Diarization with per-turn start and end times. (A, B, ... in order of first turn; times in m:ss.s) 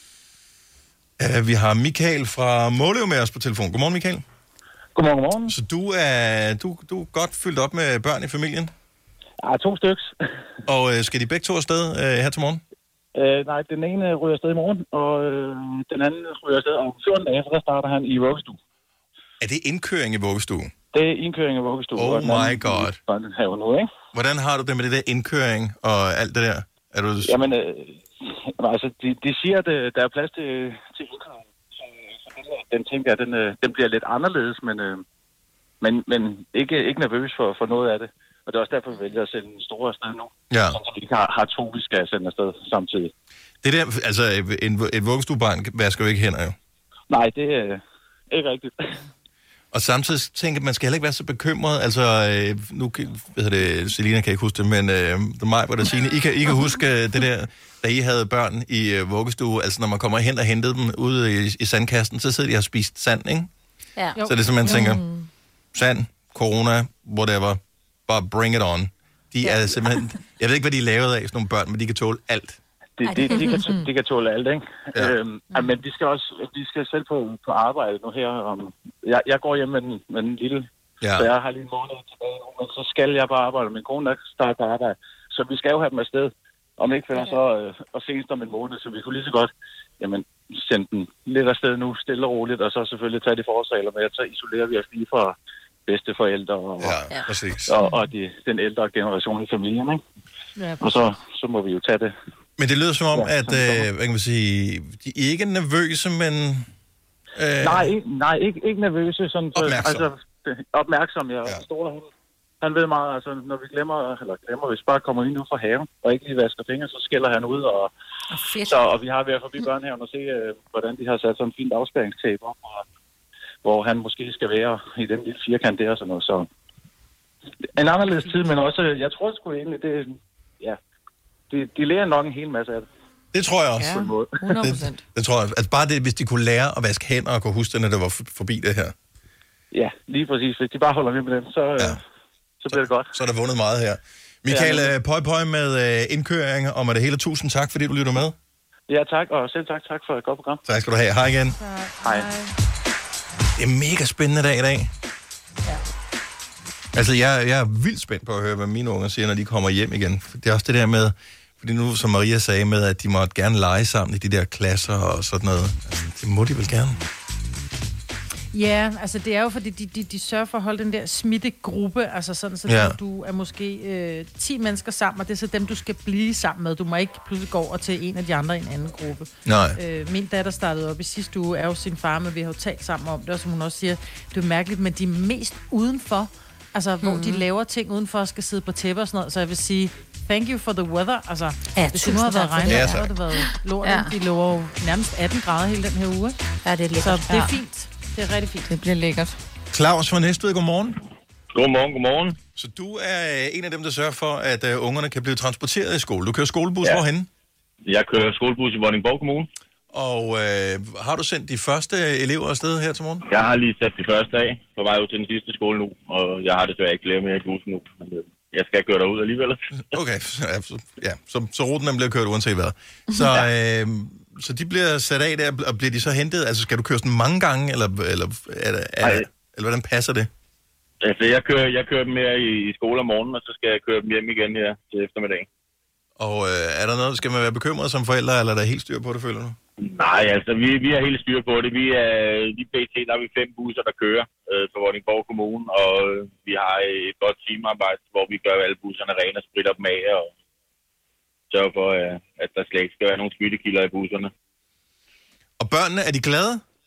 0:01.2-0:04.2 A
0:05.0-0:05.6 B
0:05.5-0:08.7 A
0:09.4-0:10.1 B
0:10.7-0:12.6 A
0:13.2-0:18.6 B
0:19.4-0:20.7 A
0:20.9-0:23.9 B
0:22.0-0:23.0 A
0:24.1-0:27.4 A
0:27.2-0:35.0 B
0:35.8-0:43.1 B
0:40.5-0:40.8 A
0:43.6-0:46.6 A
0:47.1-0:49.0 B
0:49.7-1:03.5 A
1:04.0-1:04.2 C
1:04.2-1:04.8 D
1:04.2-1:05.0 A
1:04.7-1:05.3 E
1:05.7-1:12.6 A
1:13.0-1:35.4 B
1:13.0-1:13.8 C
1:13.4-1:13.9 E
1:21.0-1:21.3 A
1:35.9-1:37.0 B
1:36.8-1:37.7 A
1:37.7-1:40.0 B
1:40.6-1:41.0 D
1:40.8-1:42.1 B
1:42.6-1:46.7 A
1:43.1-1:43.9 B
1:47.4-1:47.9 A
1:47.6-1:52.1 B
1:49.6-1:50.1 A
1:52.6-1:57.9 B
1:58.3-1:58.9 C
1:58.7-2:02.8 B
2:03.6-2:06.5 B
2:07.8-2:10.8 B
2:11.5-2:12.9 B
2:13.3-2:14.0 A
2:13.8-2:15.0 E
2:14.0-2:14.4 B
2:14.6-2:18.9 A
2:19.7-2:22.0 B
2:22.6-2:23.2 B
2:22.7-2:28.4 A
2:24.5-2:24.9 B
2:28.9-2:30.6 B
2:30.7-2:31.6 A
2:31.6-2:32.5 D
2:32.0-2:32.3 B
2:33.6-2:34.9 A
2:36.9-2:47.0 A
2:48.5-3:16.4 D
2:52.7-2:53.0 A
2:59.4-2:59.8 A
3:07.0-3:07.4 C
3:11.7-3:14.1 C
3:12.7-3:13.1 A
3:16.6-3:17.5 C
3:17.0-3:18.7 D
3:18.7-3:19.4 E
3:19.7-3:21.0 A
3:21.5-3:22.4 F
3:22.6-3:27.3 A
3:27.9-3:29.5 F
3:29.9-3:33.2 A
3:33.3-3:39.6 F
3:39.8-3:50.3 A
3:43.1-3:43.4 E
3:51.0-3:55.5 F
3:56.2-3:59.6 A
3:59.8-4:10.3 F
4:11.5-4:14.3 F
4:15.6-4:16.6 A